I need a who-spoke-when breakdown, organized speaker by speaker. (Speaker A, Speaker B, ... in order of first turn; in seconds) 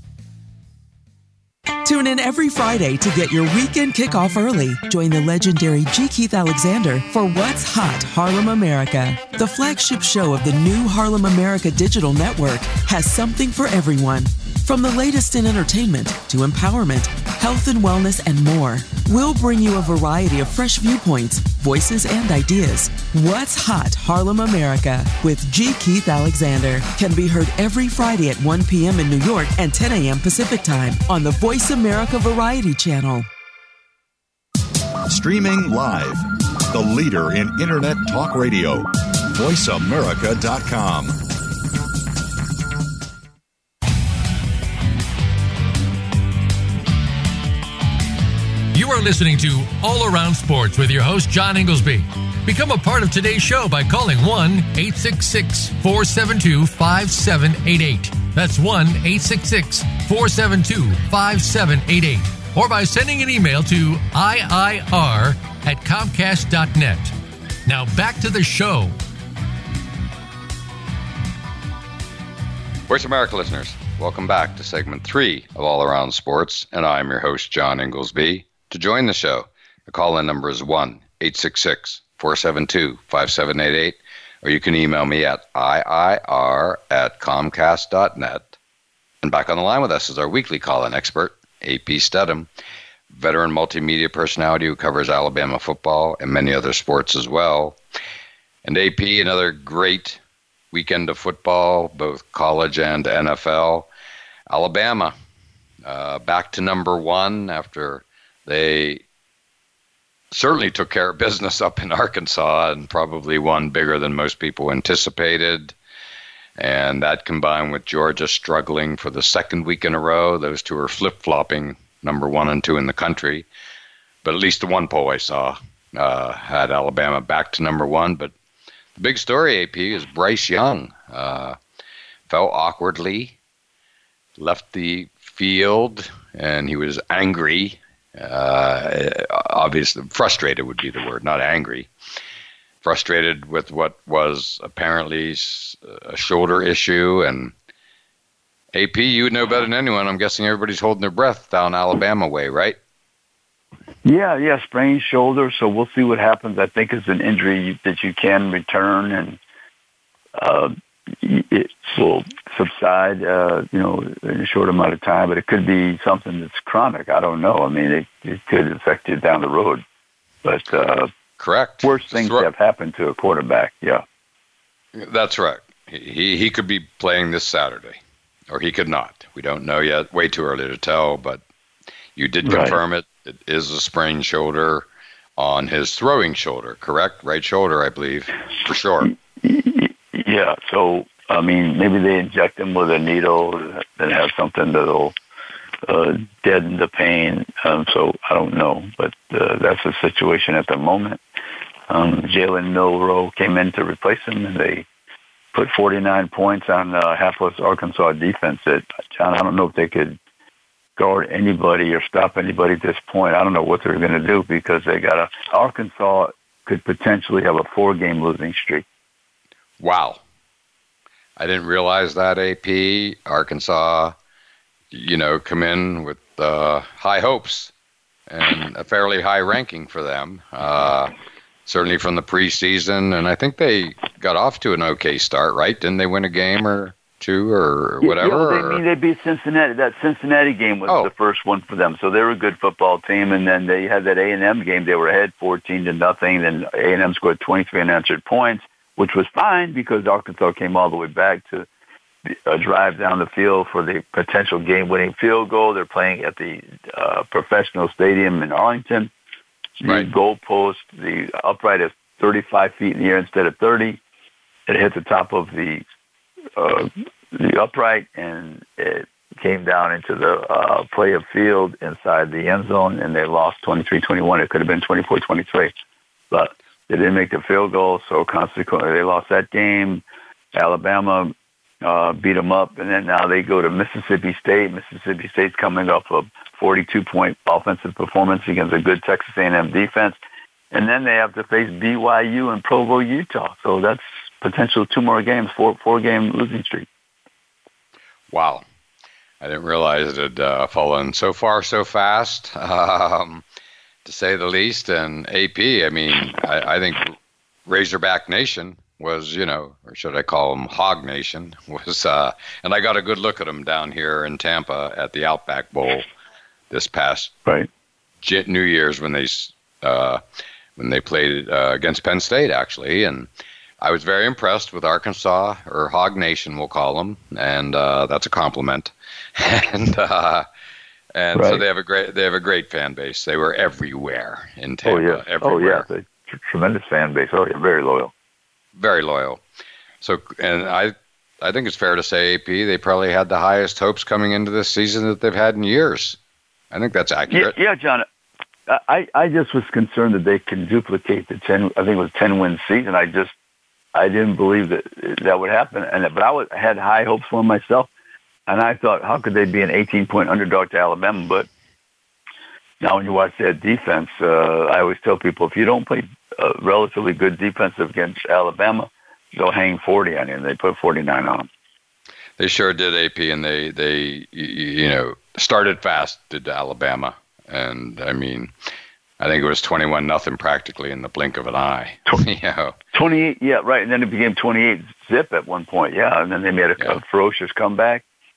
Speaker A: 1.8-33.3
Speaker B: 35.1-41.2
Speaker C: 48.7-67.1, 67.7-69.0
Speaker D: 72.9-88.6, 89.2-92.5, 93.1-97.8, 98.6-100.2, 100.7-103.9, 104.5-105.1, 105.8-109.0, 110.3-115.8, 116.6-123.5, 124.2-128.3, 129.0-131.6, 132.3-133.4, 134.4-141.9, 142.8-147.5, 148.7-152.8, 171.4-172.5, 174.9-178.0, 178.5-181.4, 182.2-189.1, 219.8-220.2, 221.4-224.1, 224.9-227.7, 228.3-231.1, 231.7-238.8, 298.3-298.6, 299.4-303.4, 304.1-316.1, 316.7-317.4, 318.2-320.2, 320.8-323.3, 323.8-330.5, 331.1-335.9, 338.8-339.4, 340.0-346.2, 346.7-347.6, 372.4-378.5, 379.2-382.8
Speaker E: 154.0-159.4, 160.4-169.8, 170.4-171.1, 171.8-174.0, 182.4-182.8, 189.0-195.2, 195.8-201.2, 201.9-204.9, 205.5-210.2, 211.0-218.9, 238.0-251.7, 252.2-259.1, 259.8-264.0, 264.7-265.9, 266.6-275.7, 276.3-280.0, 280.5-290.2, 290.7-296.9, 331.4-331.6, 334.9-338.1, 347.3-348.1, 348.7-353.4, 353.9-357.9, 358.5-361.5, 362.8-371.5, 382.9-388.0